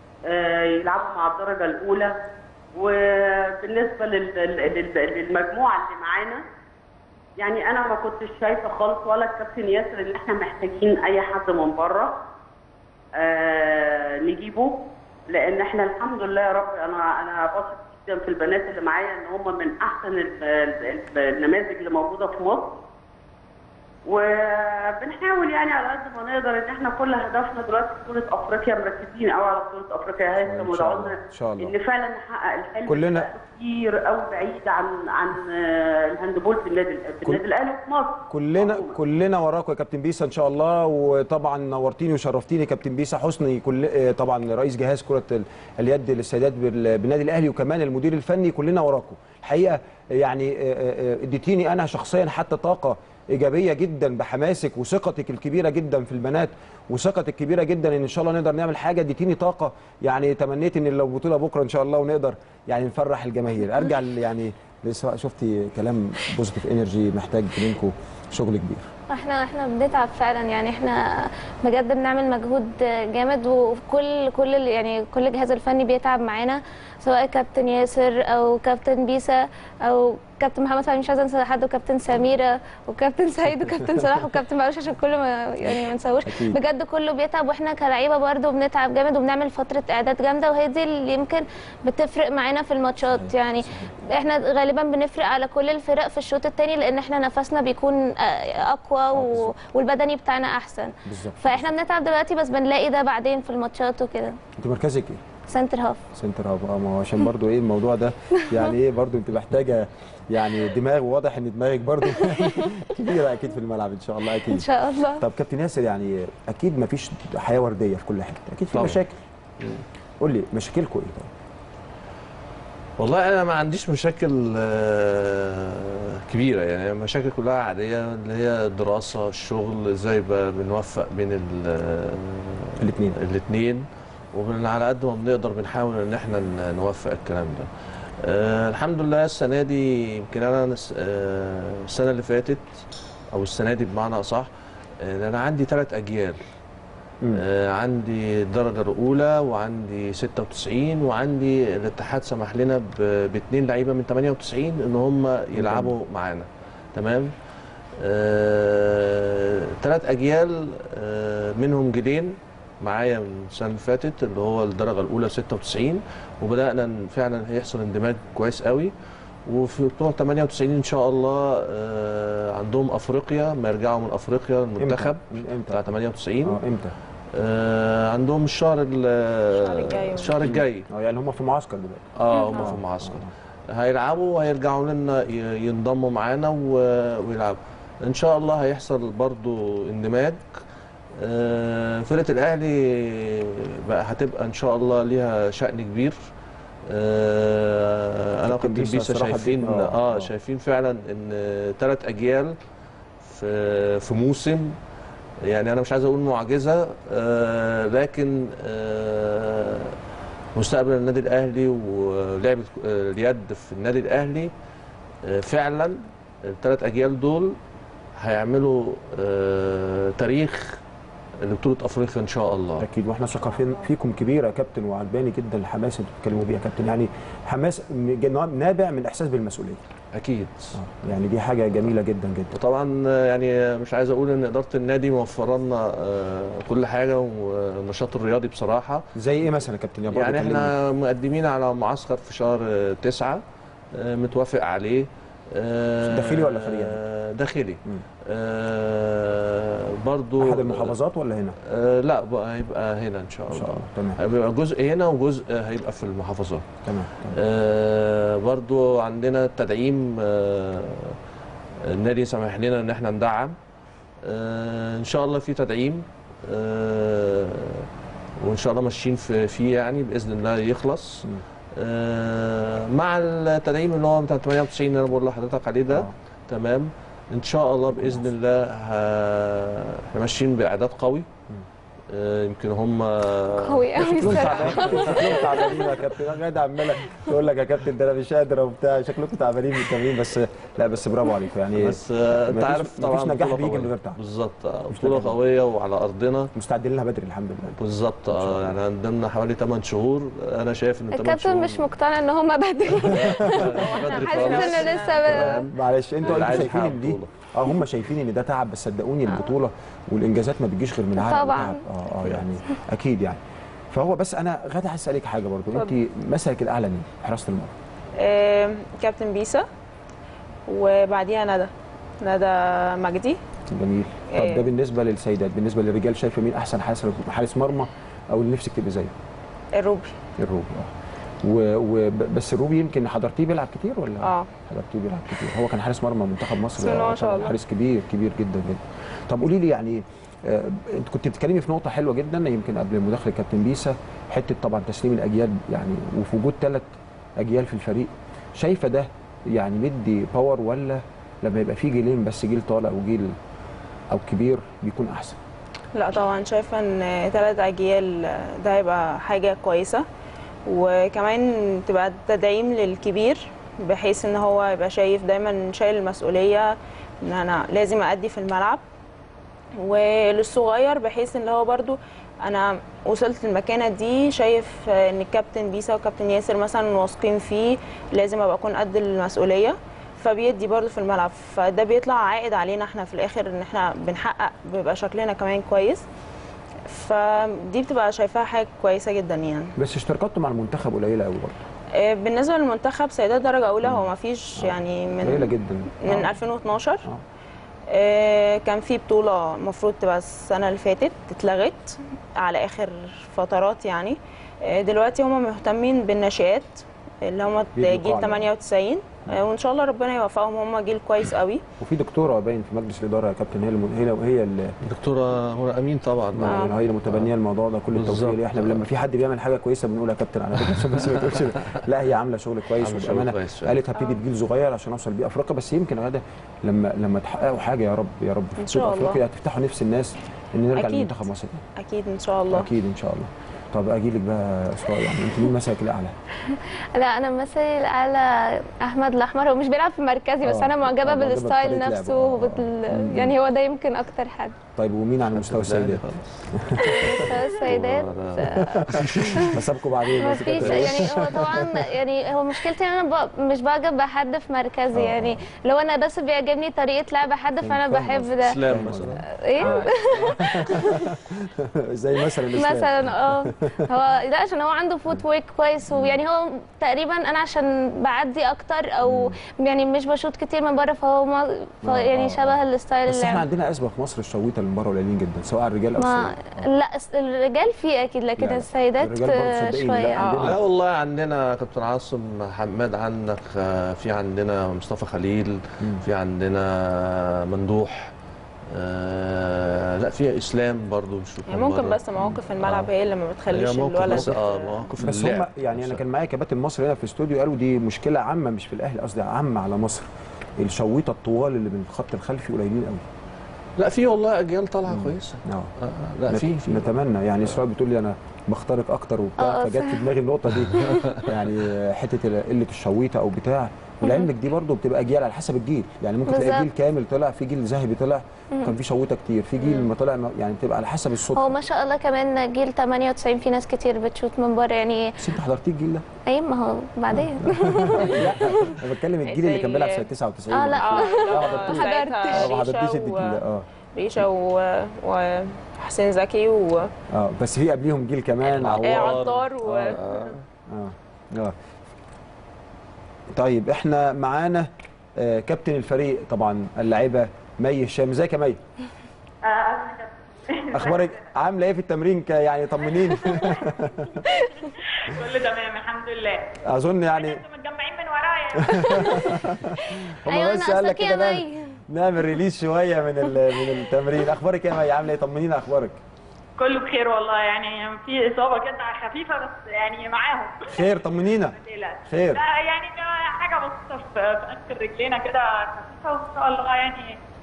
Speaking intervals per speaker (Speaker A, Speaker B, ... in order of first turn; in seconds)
Speaker A: 0.2-2.1, 2.7-6.4, 7.4-12.2, 13.2-22.8, 24.1-38.9
Speaker B: 30.4-31.7, 32.9-33.3, 38.3-68.9, 86.2-86.6, 93.1-93.9, 99.1-99.5, 101.0-101.7, 104.6-105.3, 106.1-119.2, 120.2-121.3, 132.8-133.2, 155.5-155.9, 174.8-175.9, 176.4-176.9, 180.4-183.3, 198.4-200.3, 222.8-229.8, 230.7-232.5, 239.1-240.7, 246.0-247.0, 250.4-251.6, 253.5-254.2, 256.8-257.4, 275.9-276.1, 277.9-278.3, 284.0-294.2, 294.9-295.4, 296.5-298.8, 303.0-303.7, 305.3-317.7, 323.7-329.1, 330.4-330.9, 331.4-353.3, 354.1-355.4, 389.8-391.6, 394.6-396.4, 407.7-408.5, 411.8-414.8, 416.3-431.6, 432.5-436.1, 440.4-443.4, 444.8-447.4, 448.4-451.9, 454.9-455.4, 457.6-463.8, 465.9-466.2, 469.0-469.4, 471.8-476.6, 478.4-480.6, 494.1-494.3, 494.9-503.0, 504.9-505.7, 506.3-521.5, 525.2-526.1, 527.1-533.6, 537.1-540.0, 540.7-541.5, 543.3-548.6, 550.7-554.2, 556.6-557.4, 558.5-566.0, 570.7-572.4
Speaker C: 69.1-104.4, 105.5-106.0, 114.4-115.2, 182.3-182.6, 283.5-285.9, 301.1-305.6, 311.2-311.8, 436.5-444.6, 446.8-449.6, 450.1-458.6, 459.2-461.1, 462.5-473.4, 476.0-480.3, 509.4-510.0, 510.8-511.2, 516.3-516.7, 521.3-525.1, 526.2-528.8, 530.5-532.5, 560.2-561.8
Speaker D: 118.7-119.0, 123.0-137.7, 138.2-142.6, 143.3-144.5, 145.0-146.4, 147.3-157.3, 158.0-168.9, 169.5-176.6, 177.3-180.8, 182.2-190.4, 191.2-196.2, 196.9-202.5, 203.2-204.8, 205.4-209.9, 210.5-214.5, 215.2-217.6, 218.2-220.8, 221.4-222.8, 230.1-230.8, 232.5-239.0, 240.1-243.4, 243.9-250.9, 251.6-256.6, 257.3-261.2, 261.8-263.5, 264.2-267.9, 268.4-281.2, 282.1-285.1, 291.7-296.5, 297.8-301.9, 303.0-305.7, 306.2-307.3, 414.8-417.3, 417.9-418.8, 420.8-421.1, 422.8-423.8, 445.4-449.6, 450.5-451.2, 458.4-459.2, 480.4-488.1, 488.7-492.9, 493.5-496.0, 503.8-506.9, 510.8-511.2, 538.5-540.4
Speaker E: 179.5-180.3, 303.6-305.4, 318.2-319.7, 320.7-323.4, 324.3-324.6, 329.7-330.1, 334.2-334.5, 336.8-337.6, 355.9-360.0, 360.7-368.8, 369.8-386.0, 386.9-389.7, 391.9-397.0, 397.9-411.6, 428.6-429.2, 430.8-431.2, 431.8-432.7, 480.2-480.5, 491.5-494.9, 529.2-530.1, 530.6-533.4, 533.9-536.9, 538.6-540.0
Speaker F: 549.5-551.1, 553.5-556.6, 557.1-559.4, 566.6-577.2